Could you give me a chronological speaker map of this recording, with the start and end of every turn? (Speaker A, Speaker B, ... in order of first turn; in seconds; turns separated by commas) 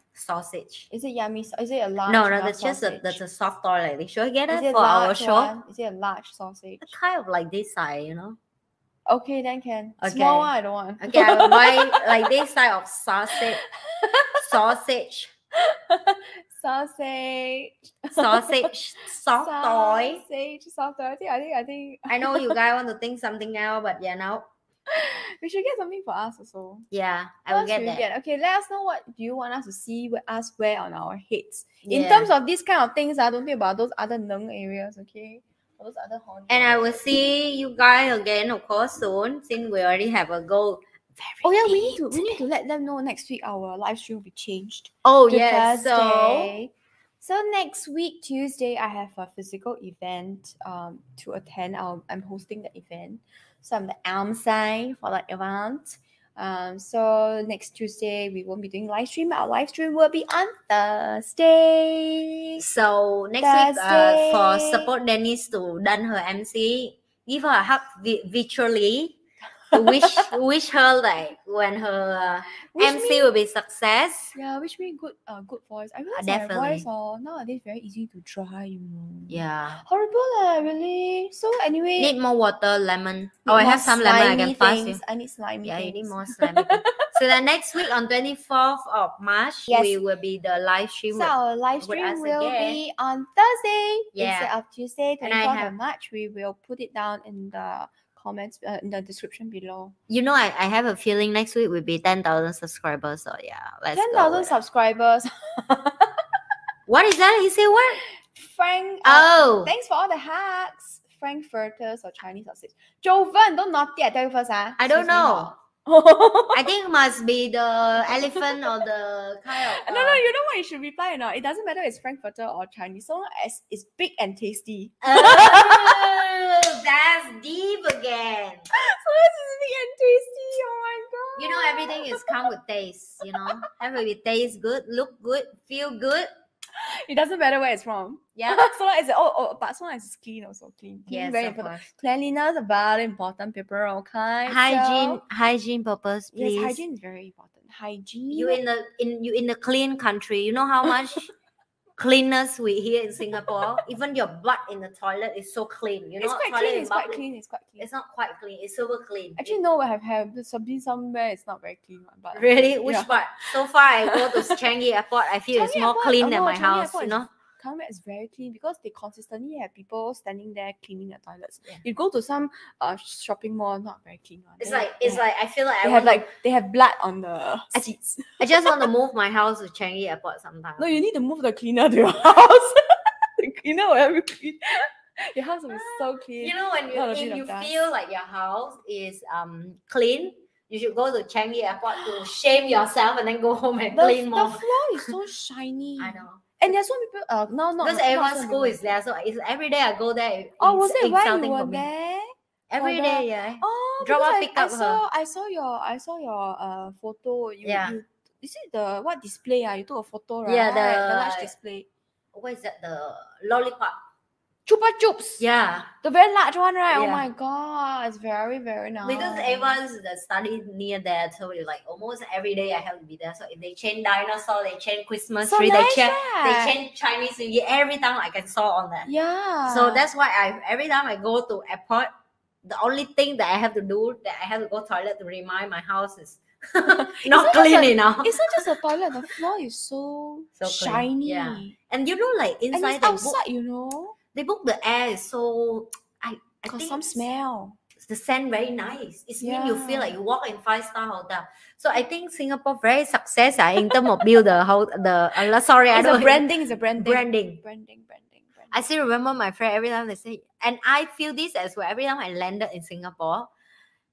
Speaker A: 0.1-0.9, Speaker B: 0.9-3.2, Speaker A: 2.1-5.5, Speaker B: 4.5-6.9, Speaker A: 6.8-8.4, Speaker B: 9.1-12.3, Speaker A: 10.0-13.6, Speaker B: 14.0-14.4, Speaker A: 14.3-15.3, Speaker B: 15.7-18.7, Speaker A: 18.1-20.2, Speaker B: 19.4-22.6, Speaker A: 22.1-24.5, Speaker B: 24.9-26.9, Speaker A: 26.9-28.1, Speaker B: 27.5-37.0, Speaker A: 31.8-32.3, Speaker A: 36.5-42.4, Speaker B: 41.4-62.6, Speaker A: 45.0-46.5, Speaker A: 62.6-69.2, Speaker B: 63.4-64.9, Speaker B: 69.7-70.1, Speaker A: 69.7-74.3, Speaker B: 72.7-73.3, Speaker B: 74.3-82.1, Speaker A: 76.1-76.8, Speaker A: 79.3-79.8, Speaker A: 82.0-85.0, Speaker B: 83.5-87.1, Speaker A: 85.6-92.8, Speaker B: 89.7-90.0, Speaker B: 91.1-99.9, Speaker A: 94.1-94.5, Speaker A: 95.2-95.7, Speaker A: 100.1-104.6, Speaker B: 103.9-106.1, Speaker A: 106.9-108.0, Speaker B: 108.3-116.7, Speaker A: 109.0-109.7, Speaker A: 114.8-115.5, Speaker A: 116.5-120.2, Speaker B: 118.1-118.7, Speaker B: 119.6-126.0, Speaker A: 125.0-128.7, Speaker B: 128.7-132.5, Speaker A: 131.4-136.3, Speaker B: 136.8-145.2, Speaker A: 138.4-138.7, Speaker A: 141.1-141.9, Speaker A: 144.4-146.8, Speaker B: 146.3-148.6, Speaker A: 148.3-151.3, Speaker A: 152.0-157.2, Speaker B: 156.2-157.9, Speaker A: 157.8-159.6, Speaker B: 159.4-164.5, Speaker A: 162.3-167.3, Speaker B: 165.5-175.2, Speaker A: 174.6-176.3, Speaker B: 175.8-178.8, Speaker A: 177.8-180.9, Speaker B: 180.8-182.8, Speaker B: 183.4-187.9, Speaker A: 185.7-194.7, Speaker B: 193.9-198.8, Speaker A: 196.0-196.4, Speaker A: 197.8-201.9, Speaker B: 200.6-211.9, Speaker A: 202.7-205.0, Speaker A: 207.6-207.9, Speaker A: 210.4-211.5, Speaker A: 212.3-214.0, Speaker B: 214.7-215.4, Speaker A: 215.4-215.9, Speaker B: 216.0-219.8, Speaker A: 216.9-217.2, Speaker A: 219.0-229.1, Speaker B: 225.4-226.8, Speaker B: 229.1-230.1, Speaker A: 229.7-232.1, Speaker A: 232.6-238.6, Speaker B: 236.8-241.8, Speaker A: 240.6-243.4, Speaker B: 242.7-244.2, Speaker A: 244.3-247.2, Speaker B: 246.7-247.8, Speaker A: 248.0-257.6, Speaker B: 249.4-250.2, Speaker B: 255.9-258.9, Speaker A: 258.7-263.5